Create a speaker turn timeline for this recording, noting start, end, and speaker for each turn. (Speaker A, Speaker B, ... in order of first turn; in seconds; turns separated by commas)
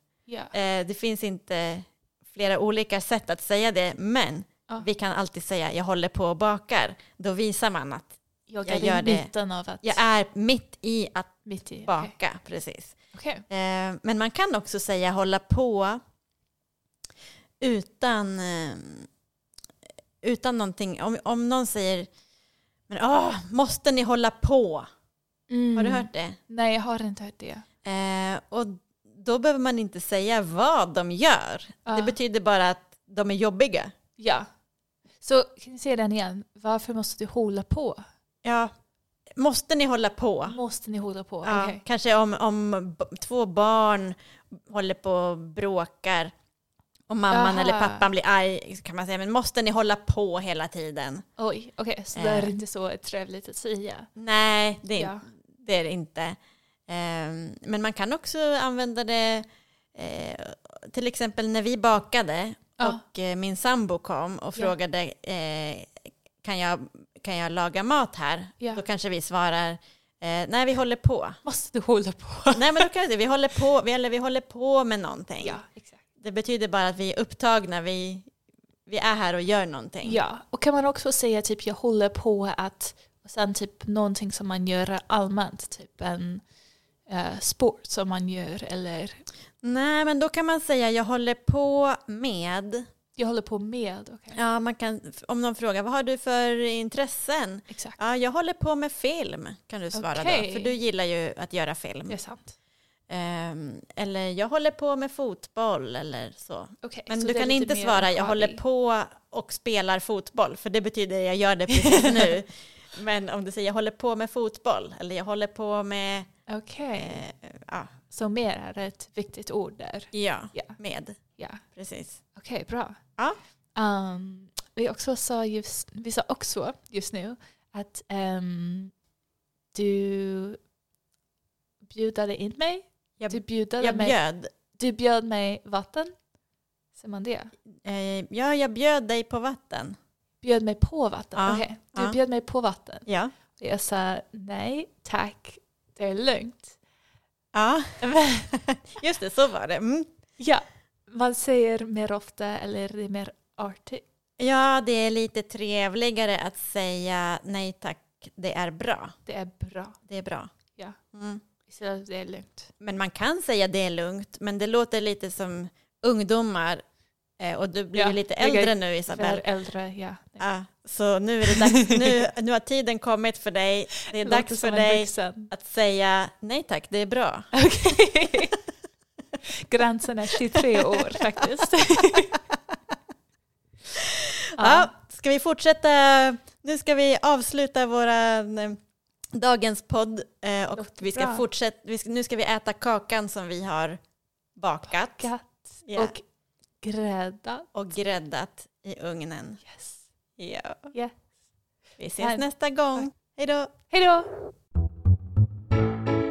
Speaker A: 0.3-0.5, Speaker B: 0.5-9.3, Speaker A: 8.5-10.0, Speaker B: 9.8-13.0, Speaker A: 11.4-12.1, Speaker A: 13.1-13.4, Speaker B: 13.5-16.0, Speaker B: 17.6-19.1, Speaker B: 20.2-22.1, Speaker B: 22.9-24.9, Speaker A: 25.5-27.6, Speaker B: 25.8-26.4, Speaker B: 27.8-33.9, Speaker A: 31.9-32.1, Speaker A: 34.2-34.5, Speaker A: 35.2-38.0, Speaker B: 38.4-38.7, Speaker B: 39.4-40.6, Speaker A: 40.5-41.8, Speaker B: 41.5-44.2, Speaker B: 44.7-46.3, Speaker B: 47.1-51.2, Speaker A: 47.3-48.1, Speaker A: 51.4-54.1, Speaker B: 52.1-52.5, Speaker B: 54.2-56.4, Speaker A: 55.0-55.2, Speaker B: 56.9-71.4, Speaker A: 71.5-72.9, Speaker B: 72.5-75.6, Speaker A: 75.4-76.0, Speaker B: 76.2-78.3, Speaker B: 78.9-80.2, Speaker A: 80.0-86.4, Speaker A: 87.1-89.2, Speaker B: 89.6-92.8, Speaker A: 93.2-94.4, Speaker B: 94.3-102.2, Speaker A: 97.7-98.0, Speaker A: 99.9-100.8, Speaker A: 102.1-102.5, Speaker B: 103.1-116.3, Speaker A: 106.8-108.6, Speaker A: 111.7-112.2, Speaker A: 116.5-117.2, Speaker B: 116.9-117.9, Speaker A: 118.1-120.8, Speaker B: 120.1-122.2, Speaker A: 121.4-121.6, Speaker A: 122.3-123.0, Speaker A: 123.8-128.9, Speaker A: 129.7-130.6, Speaker A: 131.9-134.2, Speaker B: 133.2-134.5, Speaker A: 134.8-136.1, Speaker A: 136.9-137.5, Speaker B: 137.8-140.0, Speaker A: 140.4-143.1, Speaker B: 141.3-142.2, Speaker B: 143.1-143.3, Speaker A: 143.6-146.8, Speaker B: 147.5-150.1, Speaker A: 148.0-148.5, Speaker A: 150.4-154.0, Speaker B: 154.4-159.2, Speaker A: 159.3-160.0, Speaker B: 160.1-160.5, Speaker B: 161.1-161.4, Speaker A: 161.7-162.7, Speaker B: 162.8-166.8, Speaker B: 167.4-169.4, Speaker A: 167.9-170.4, Speaker B: 170.4-177.5, Speaker A: 171.7-172.0, Speaker A: 174.1-175.5, Speaker A: 177.5-178.6, Speaker A: 179.5-182.4, Speaker B: 183.9-188.8, Speaker A: 184.6-184.9, Speaker B: 189.4-194.0, Speaker A: 190.8-191.4, Speaker B: 194.6-195.3, Speaker A: 195.0-196.2, Speaker B: 195.9-196.1, Speaker A: 196.8-197.7, Speaker B: 197.7-199.6, Speaker A: 199.6-200.0, Speaker B: 200.4-200.9, Speaker A: 200.9-201.2, Speaker B: 202.0-203.7, Speaker A: 202.2-203.1, Speaker A: 203.9-204.3